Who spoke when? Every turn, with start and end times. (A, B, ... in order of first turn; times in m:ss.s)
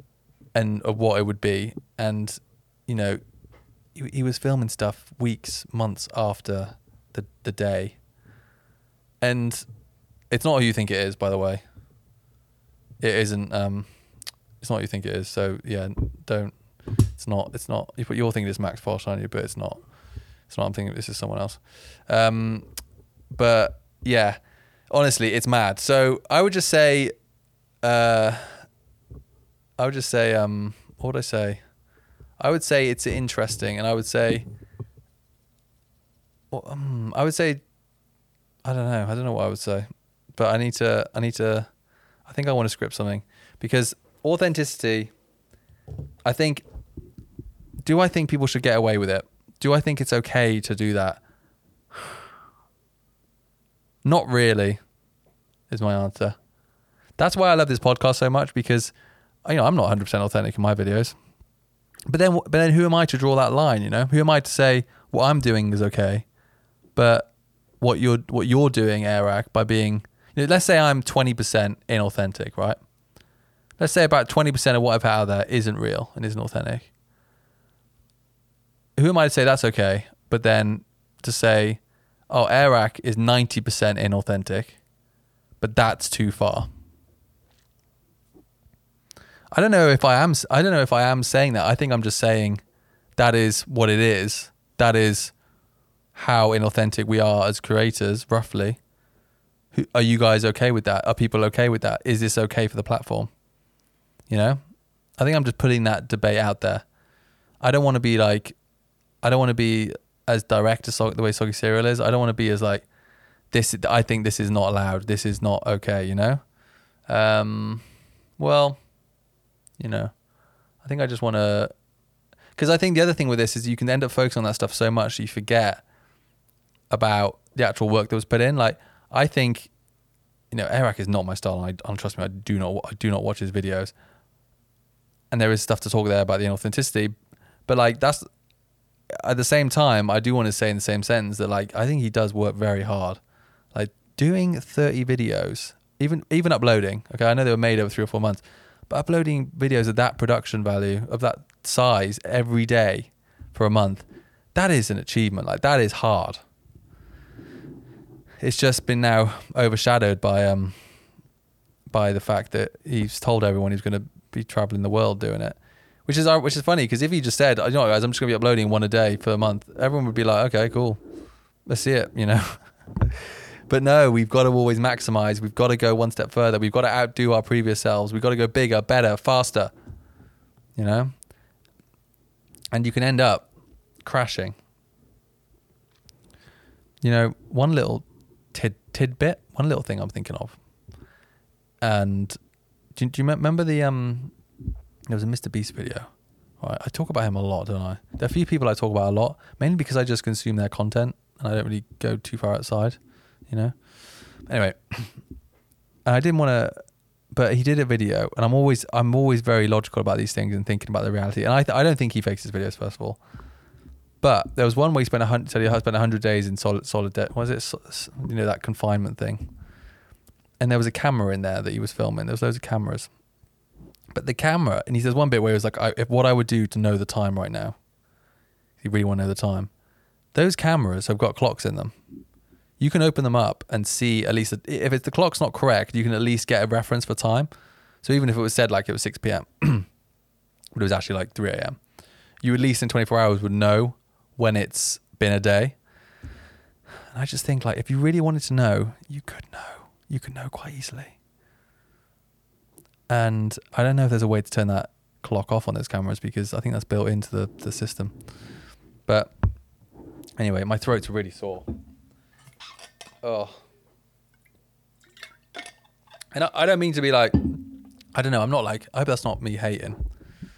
0:00.6-0:03.2 A
0:04.0-0:08.0 A
0:09.2-0:09.6 A
0:10.3-0:11.6 A
0:13.0-0:13.9 A
0:14.6-0:16.6 A
0:17.2-0:19.8 A
0:20.5-0:22.6 A
0:23.3-0:24.4 A
0:24.9-0:27.1 A
0:27.8-0:28.6 A
0:29.8-0:31.6 A
0:32.4-0:34.4 A
0:36.5-0:37.6 A
0:38.6-0:39.9 A
0:40.4-0:41.7 A
0:42.3-0:45.1 A
0:46.2-0:46.6 A
0:47.8-0:51.2 A
0:54.0-0:54.8 A
0:55.7-0:56.4 A
0:57.2-0:58.9 A
0:59.4-1:01.2 A
1:02.1-1:06.2 A
1:07.0-1:07.3 A
1:07.8-1:12.8 A
1:13.8-1:16.9 A
1:19.0-1:21.8 A
1:22.3-1:24.8 A
1:25.6-1:26.7 A
1:29.5-1:32.6 A
1:33.2-1:35.3 A
1:36.2-1:38.8 A
1:39.7-1:43.3 A
1:44.3-1:44.6 A
1:45.2-1:46.8 A
1:47.6-1:48.6 A
1:49.2-1:52.9 A
1:53.5-1:56.4 A
1:57.1-1:57.8 A
1:58.4-1:58.8 A
1:59.8-2:00.1 A
2:00.8-2:01.7 A
2:02.6-2:05.8 A
2:06.9-2:09.7 A
2:10.5-2:13.9 A
2:15.3-2:17.1 A
2:17.7-2:18.2 A
2:19.1-2:23.2 A
2:23.7-2:36.4 A
2:38.4-2:40.8 A
2:41.9-2:51.0 A
2:51.7-2:53.2 A
2:53.7-2:59.7 A
3:00.8-3:01.1 A
3:02.7-3:03.5 A
3:04.0-3:04.6 A
3:07.0-3:10.6 A
3:11.8-3:12.4 A
3:13.0-3:14.3 A
3:15.1-3:16.1 A
3:16.6-3:23.0 A
3:23.5-3:23.7 A
3:24.5-3:25.1 A
3:26.1-3:26.8 A
3:27.3-3:33.2 A
3:34.2-3:39.5 A
3:40.6-3:43.1 A
3:44.1-3:47.8 A
3:48.8-3:49.7 A
3:50.3-3:51.9 A
3:52.8-3:57.5 A
3:58.0-3:59.9 A
4:00.8-4:01.8 A
4:02.4-4:05.8 A
4:07.1-4:11.2 A
4:13.1-4:18.2 A
4:19.1-4:19.3 A
4:20.4-4:21.6 A
4:23.2-4:23.6 A
4:26.3-4:27.6 A
4:28.1-4:30.0 A